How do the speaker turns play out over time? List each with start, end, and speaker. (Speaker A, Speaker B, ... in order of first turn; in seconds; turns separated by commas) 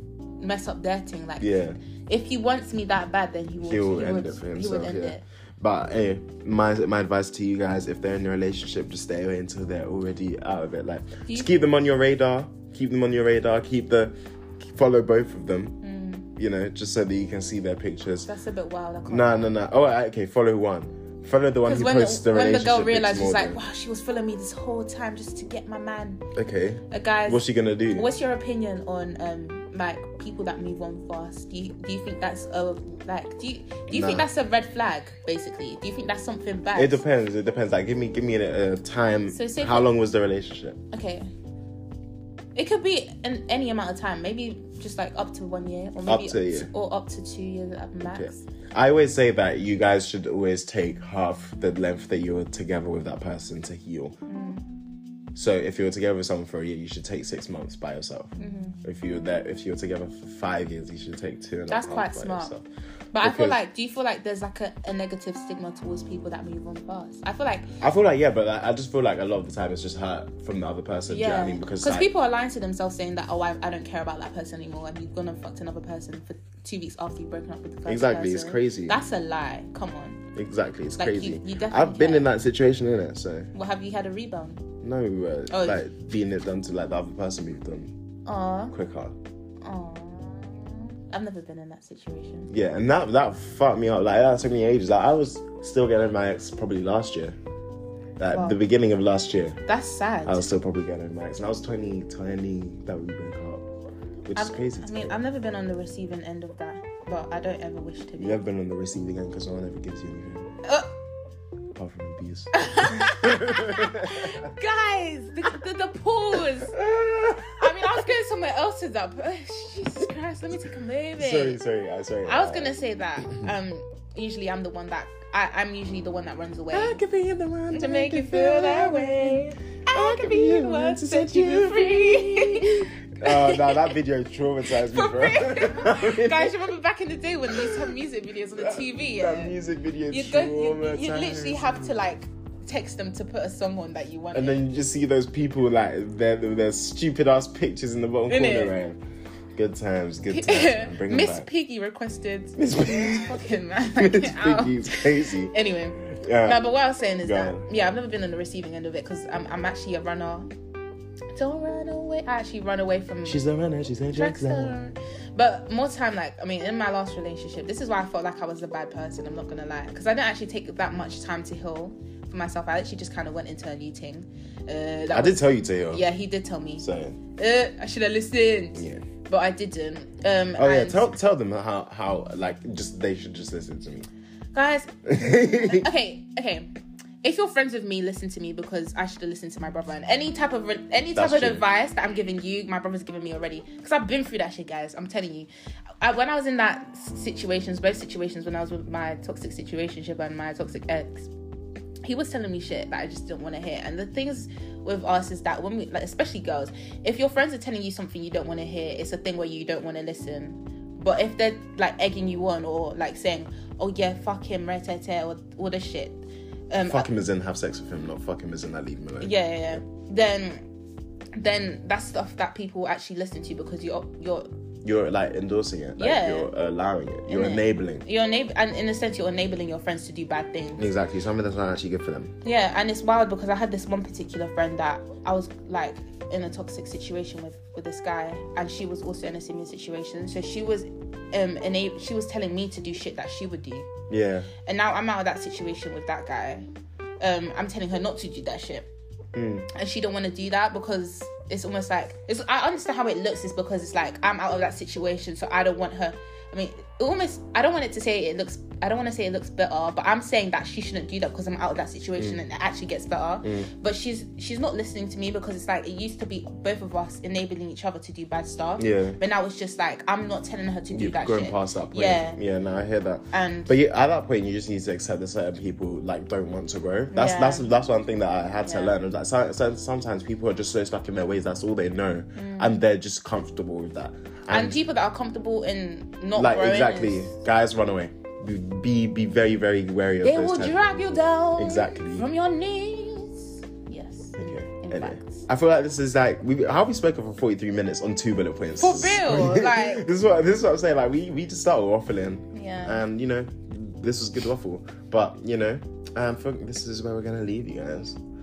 Speaker A: 0.4-1.5, Speaker B: 1.4-1.8, Speaker A: 2.1-5.2, Speaker B: 3.6-15.8, Speaker A: 15.8-16.3, Speaker B: 16.4-18.3, Speaker A: 18.2-19.5, Speaker B: 19.1-23.6, Speaker A: 21.6-26.2, Speaker B: 26.3-28.1, Speaker A: 26.9-37.0, Speaker B: 33.9-34.3, Speaker B: 36.7-40.8, Speaker A: 39.3-39.9, Speaker A: 40.9-41.3, Speaker A: 42.5-48.4, Speaker B: 46.0-46.7, Speaker B: 48.1-54.2, Speaker A: 54.3-54.6, Speaker B: 55.3-62.6, Speaker A: 58.4-58.8, Speaker A: 61.7-62.5, Speaker A: 63.1-67.7, Speaker B: 63.2-63.6, Speaker B: 67.8-72.1, Speaker A: 71.1-80.2, Speaker B: 77.9-79.0, Speaker B: 80.3-83.5, Speaker A: 81.0-82.3, Speaker A: 83.5-84.6, Speaker B: 84.8-87.9, Speaker A: 85.5-85.8, Speaker A: 88.2-88.7, Speaker B: 88.7-89.2, Speaker A: 89.6-92.5, Speaker B: 92.5-97.4, Speaker B: 98.2-99.6, Speaker A: 98.3-98.6, Speaker A: 99.7-100.5, Speaker B: 100.2-103.7, Speaker B: 104.2-105.2, Speaker A: 104.3-108.4, Speaker B: 108.2-110.5, Speaker A: 110.6-110.9, Speaker B: 111.7-114.4, Speaker A: 112.5-116.8, Speaker B: 116.7-118.0, Speaker A: 117.5-121.6, Speaker B: 121.2-122.8, Speaker A: 122.2-127.0, Speaker B: 126.7-136.5, Speaker A: 127.7-134.0, Speaker A: 134.7-139.6, Speaker B: 137.5-137.9, Speaker B: 138.5-142.0, Speaker A: 140.1-144.6, Speaker B: 144.3-149.0, Speaker A: 148.3-148.7, Speaker B: 149.5-151.5, Speaker A: 150.3-160.5, Speaker B: 152.6-156.6, Speaker B: 157.2-157.6, Speaker A: 161.3-163.4, Speaker B: 163.2-164.8, Speaker A: 164.1-176.8, Speaker B: 175.1-176.0, Speaker B: 176.8-177.2, Speaker A: 177.4-181.1, Speaker B: 178.7-179.0, Speaker B: 180.6-184.1, Speaker A: 184.5-184.9, Speaker B: 185.1-185.9, Speaker A: 185.5-186.7, Speaker A: 187.2-195.5, Speaker B: 191.1-191.6, Speaker A: 196.0-201.3, Speaker A: 202.0-217.1, Speaker B: 216.9-219.8, Speaker A: 219.2-220.7, Speaker A: 221.4-224.5, Speaker B: 224.8-228.0, Speaker A: 226.0-226.5, Speaker A: 227.3-230.8, Speaker B: 230.8-232.3, Speaker A: 232.4-243.9, Speaker B: 244.1-244.5, Speaker A: 244.6-246.7, Speaker A: 247.2-248.9, Speaker B: 249.3-249.7, Speaker A: 249.7-272.4, Speaker B: 263.4-263.7, Speaker B: 268.8-269.2, Speaker B: 270.9-284.8, Speaker A: 273.3-273.7, Speaker A: 277.1-277.7, Speaker A: 278.6-278.9, Speaker A: 282.4-282.8, Speaker A: 284.5-287.3, Speaker B: 286.4-292.3, Speaker A: 290.2-295.5, Speaker B: 294.4-308.2, Speaker A: 298.8-300.0, Speaker A: 302.5-303.0